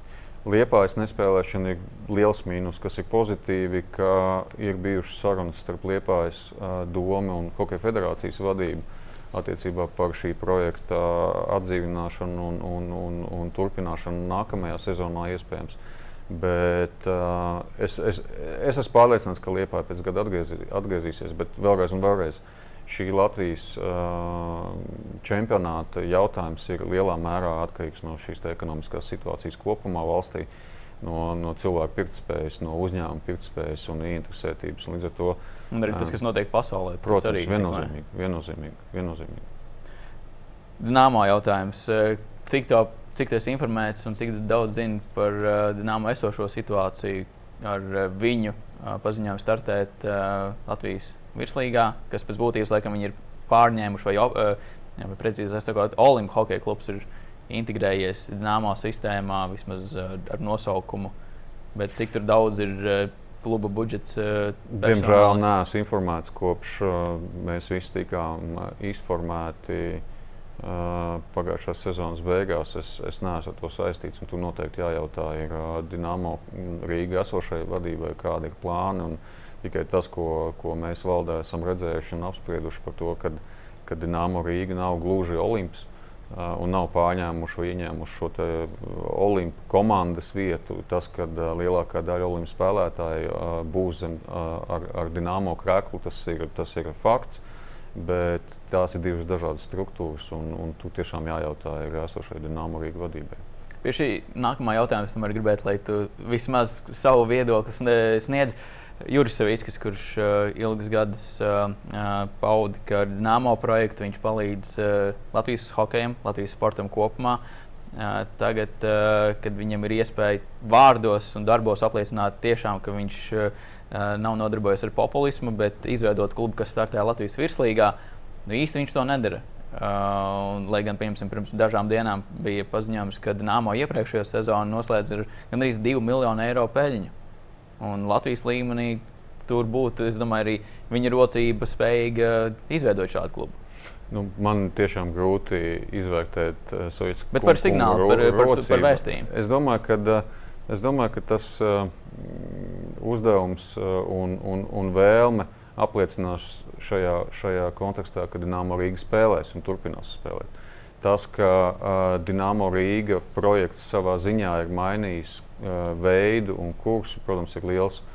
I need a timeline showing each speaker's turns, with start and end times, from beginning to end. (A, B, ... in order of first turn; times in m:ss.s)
0:00.4-0:30.5 A
0:31.0-0:36.2 A
0:35.7-0:37.9 B
0:37.0-0:39.5 A
0:40.8-1:01.1 B
1:01.8-1:05.5 B
1:04.7-1:10.0 A
1:10.6-1:37.4 A
1:38.0-1:43.4 A
1:43.8-1:57.4 B
1:57.9-2:08.0 B
2:08.5-2:17.1 B
2:17.8-2:23.6 B
2:24.1-2:48.0 A
2:27.3-2:29.3 B